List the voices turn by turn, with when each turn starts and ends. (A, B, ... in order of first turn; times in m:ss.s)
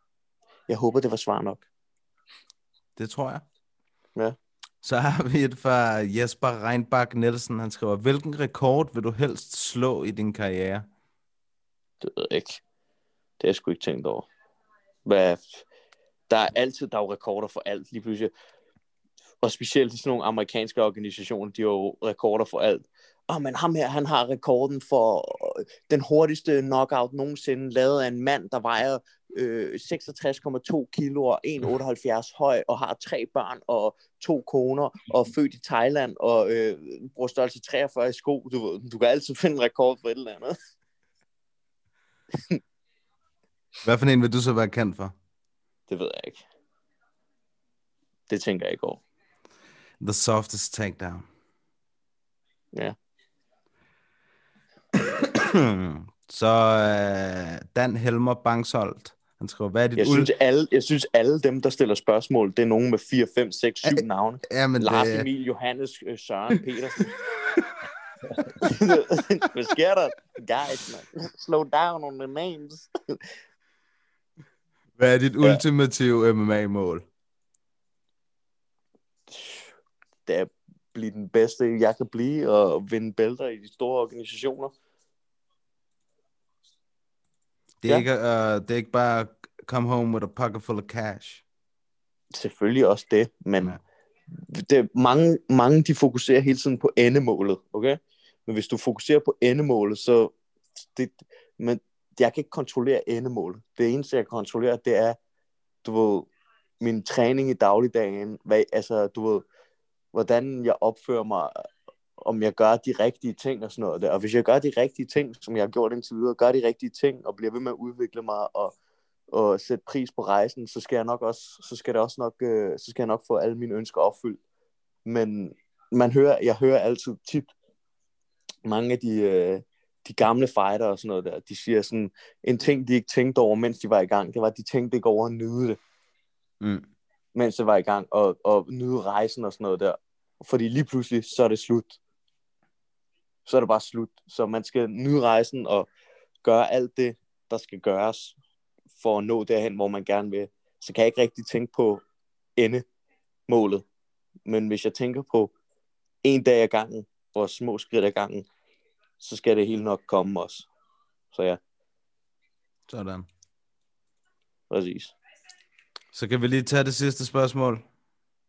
0:00.7-0:01.7 A
0:03.0-0:03.4 B
0:04.8-0:10.9 B
0:12.0-0:12.6 A
0:13.4-0:14.3 A
0:15.1-0:15.6 A
0:16.3-0:18.3 A
0:19.4-0:40.6 A
0:43.8-0:45.1 B
0:45.9-0:46.4 A
0:48.3-0:49.0 A
0:50.0-0:51.2 B
0:55.2-1:00.3 B
1:00.0-1:07.1 A
1:03.8-1:05.3 B
1:08.6-1:13.2 A
1:15.0-1:17.0 B
1:19.3-1:19.7 A
1:20.3-1:24.7 A
1:27.8-1:31.4 B
1:32.3-1:33.8 A
1:34.4-1:40.4 A
1:40.9-1:45.2 A
1:45.8-1:46.3 A
1:46.8-1:49.4 A
1:50.1-1:51.6 A
1:52.2-1:58.7 A
1:59.3-2:04.4 A
2:05.1-2:07.5 A
2:08.6-2:15.8 A
2:17.3-2:22.0 A
2:23.5-2:25.9 A
2:26.4-2:28.4 A
2:29.0-2:32.0 A
2:32.6-2:32.8 A
2:33.5-2:33.8 A
2:34.5-2:35.5 A
2:36.2-2:38.5 A
2:39.2-2:40.7 A
2:41.3-2:41.6 A
2:42.9-2:43.3 B
2:44.7-2:45.1 A
2:46.1-2:47.8 B